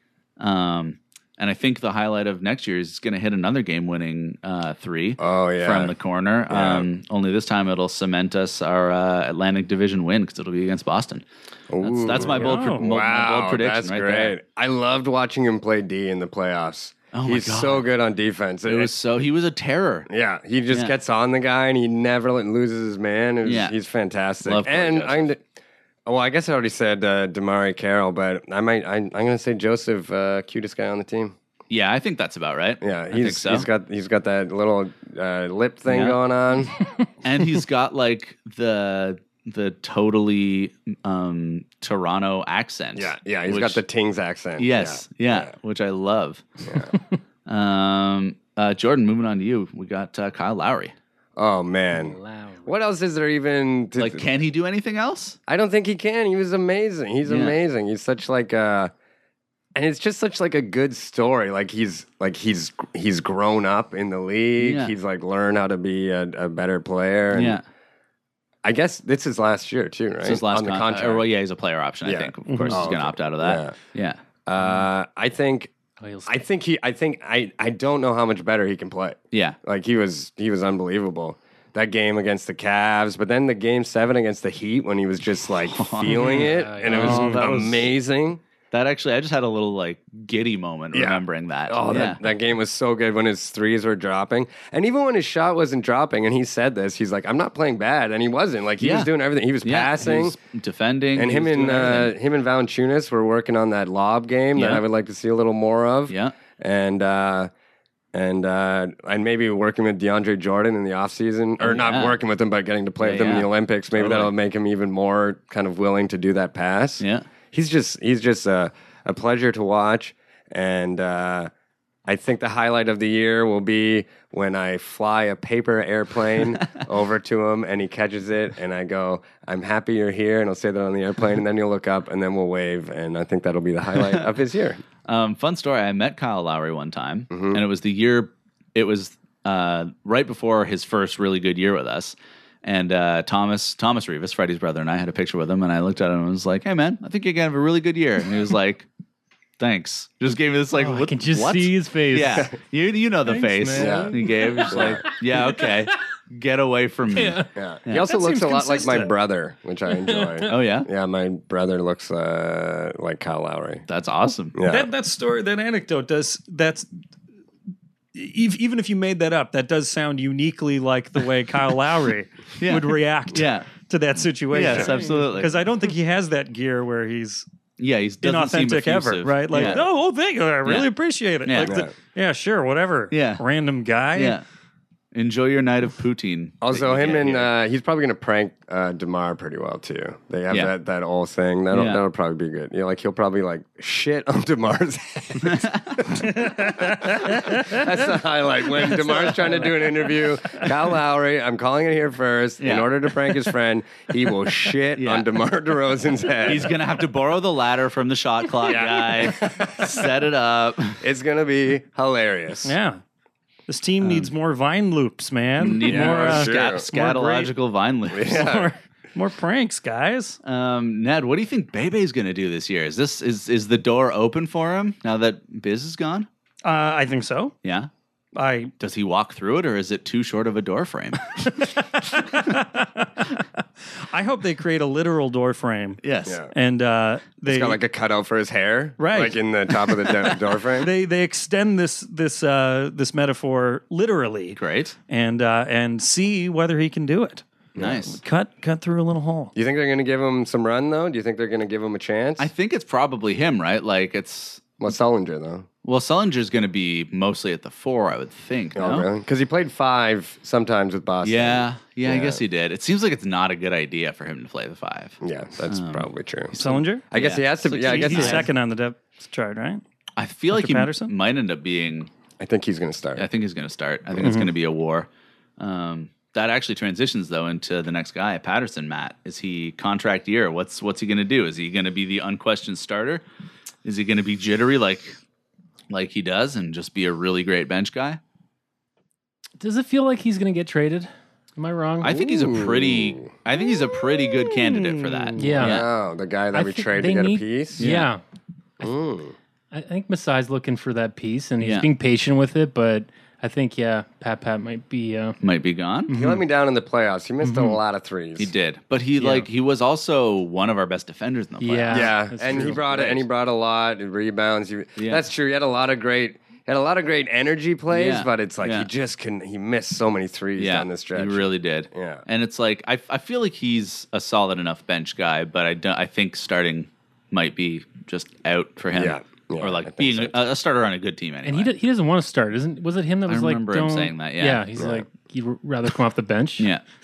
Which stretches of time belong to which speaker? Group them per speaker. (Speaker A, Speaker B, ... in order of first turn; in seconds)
Speaker A: 0.4-11.2, 11.8-14.4, 17.1-17.9, 18.7-20.1, 23.4-23.7, 24.4-25.3, 31.7-33.7, 35.9-36.2, 37.2-43.8, 44.6-46.5, 47.5-50.9, 54.0-55.4, 57.3-57.6, 64.6-64.9, 67.3-67.6, 70.2-74.2, 85.6-87.9, 88.7-92.2, 98.8-99.1, 99.6-102.1, 104.5-104.8, 106.1-106.3, 111.6-112.1, 113.0-114.3, 117.0-117.3, 135.1-148.9, 149.6-158.1, 160.4-160.9, 163.9-164.6, 172.6-173.7, 174.5-175.6, 177.8-179.9, 180.6-180.9, 181.4-181.8, 183.1-183.4, 184.1-184.4, 185.1-187.5, 191.7-192.0, 195.4-196.0, 202.6-203.4, 205.0-205.3, 206.4-211.0, 214.0-214.3, 215.6-218.4, 220.4-226.3, 227.6-227.9, 228.8-231.5, 236.0-236.4, 244.6-244.9, 247.8-248.2, 252.4-254.7, 255.8-259.1, 261.2-268.5, 270.2-272.1, 273.2-283.2, 283.9-285.2, 285.9-288.2, 292.0-295.9, 297.8-298.1, 301.6-301.9, 305.4-306.1, 308.4-312.2, 312.7-313.2, 315.0-315.2, 317.9-318.9, 320.6-331.7, 333.3-334.6
Speaker B: 5.2-5.9, 6.5-6.9, 11.7-18.9, 20.1-25.4, 26.1-31.4, 32.8-36.7, 43.0-45.5, 46.7-46.9, 51.4-54.2, 55.5-58.9, 59.7-67.6, 68.6-71.3, 72.0-73.8, 74.5-75.7, 76.3-88.4, 90.9-100.4, 101.1-107.5, 108.1-121.5, 122.1-134.8, 137.3-137.6, 153.8-154.1, 154.7-155.0, 157.6-163.8, 164.5-164.9, 179.5-179.9, 181.6-181.9, 186.6-206.7, 208.6-210.1, 211.0-212.7, 215.8-216.8, 218.1-218.7, 236.3-236.5, 237.4-240.9, 247.7-248.1, 249.6-252.5, 254.8-255.7, 258.7-262.4, 265.2-268.5, 272.4-273.3, 292.1-293.3, 295.5-297.9, 298.8-299.4, 306.1-308.5, 311.9-322.2, 328.9-330.4, 334.8-335.0
Speaker C: 12.2-12.8, 72.5-72.8, 87.0-87.4, 158.1-159.1, 164.7-166.9, 168.1-177.4, 178.2-184.4, 196.4-197.8, 212.6-213.0, 213.7-217.5, 218.3-220.4, 226.6-227.5, 228.3-228.7, 231.5-233.4, 234.0-236.0, 236.5-237.8, 239.0-247.4, 248.1-249.5, 266.6-267.1, 267.8-269.8, 270.5-271.1, 274.2-274.5, 294.5-295.3
Speaker D: 52.0-52.7, 76.0-76.3, 86.2-87.4, 150.7-152.5, 153.3-155.7, 157.1-157.5, 160.1-160.3, 289.6-292.2, 295.4-295.8, 296.5-298.2, 299.7-305.4, 306.1-306.4, 307.4-307.8, 311.6-313.1, 331.4-336.7